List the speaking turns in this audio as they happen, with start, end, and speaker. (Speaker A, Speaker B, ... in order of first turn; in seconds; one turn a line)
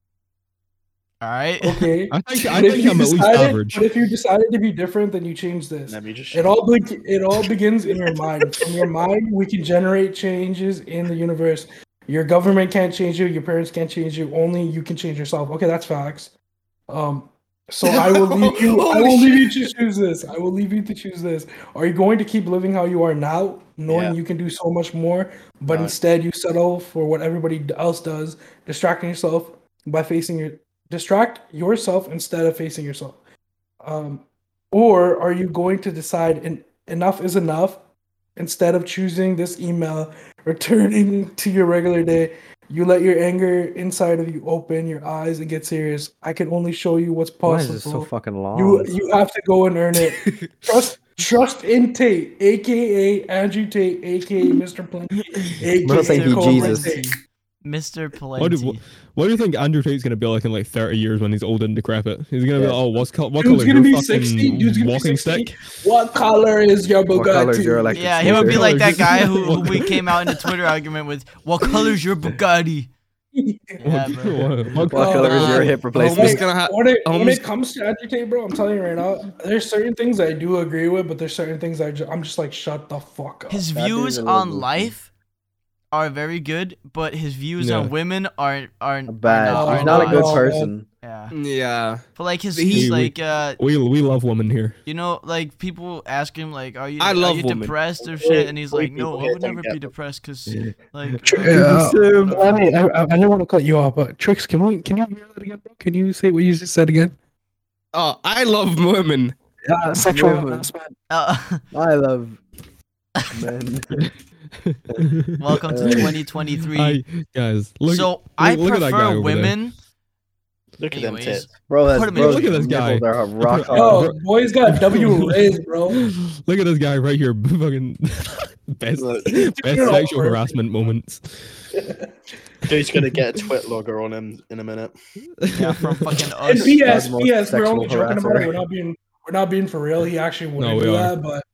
Speaker A: 1.2-1.9
Speaker B: 1.6-16.3
Speaker C: 2.1-3.9
Speaker D: 5.9-6.5
Speaker B: 16.9-33.2
Speaker E: 17.8-19.5
Speaker D: 23.9-24.2
Speaker D: 25.7-25.9
Speaker B: 33.8-37.8
Speaker B: 38.4-57.1
Speaker F: 47.5-48.9
Speaker E: 50.0-50.6
Speaker F: 55.8-57.0
Speaker A: 55.9-57.1
Speaker A: 57.6-58.8
Speaker C: 58.4-65.5
Speaker F: 62.5-62.8
Speaker B: 63.4-68.0
Speaker F: 67.1-68.8
Speaker A: 67.9-72.9
Speaker C: 68.2-70.0
Speaker B: 73.3-73.8
Speaker A: 73.8-74.5
Speaker C: 73.8-75.5
Speaker B: 74.9-83.7
Speaker F: 74.9-76.4
Speaker E: 75.2-77.4
Speaker A: 83.5-85.1
Speaker F: 83.7-84.9
Speaker A: 85.9-90.5
Speaker C: 87.6-87.9
Speaker F: 89.1-90.9
Speaker B: 89.5-90.7
Speaker A: 91.0-91.3
Speaker E: 91.3-92.9
Speaker A: 92.2-93.6
Speaker C: 92.7-94.8
Speaker A: 94.9-102.6
Speaker E: 97.0-97.8
Speaker D: 98.2-99.9
Speaker C: 100.5-100.7
Speaker B: 101.2-107.2
Speaker F: 101.5-102.5
Speaker E: 107.9-109.3
Speaker B: 109.7-111.0
Speaker F: 110.0-110.7
Speaker A: 111.1-111.6
Speaker F: 111.7-112.4
Speaker F: 113.3-114.0
Speaker C: 114.0-115.4
Speaker A: 115.4-117.0
Speaker F: 115.7-116.2
Speaker C: 116.8-119.6
Speaker A: 117.9-119.8
Speaker D: 120.8-121.5
Speaker A: 120.9-122.5
Speaker F: 121.7-124.1
Speaker C: 122.1-125.4
Speaker B: 123.7-126.1
Speaker C: 125.9-131.4
Speaker D: 129.0-130.0
Speaker B: 129.6-130.5
Speaker B: 131.8-132.1
Speaker D: 132.7-134.9
Speaker C: 135.4-136.2
Speaker A: 135.5-136.9
Speaker B: 136.4-141.4
Speaker F: 136.8-138.5
Speaker C: 140.6-141.2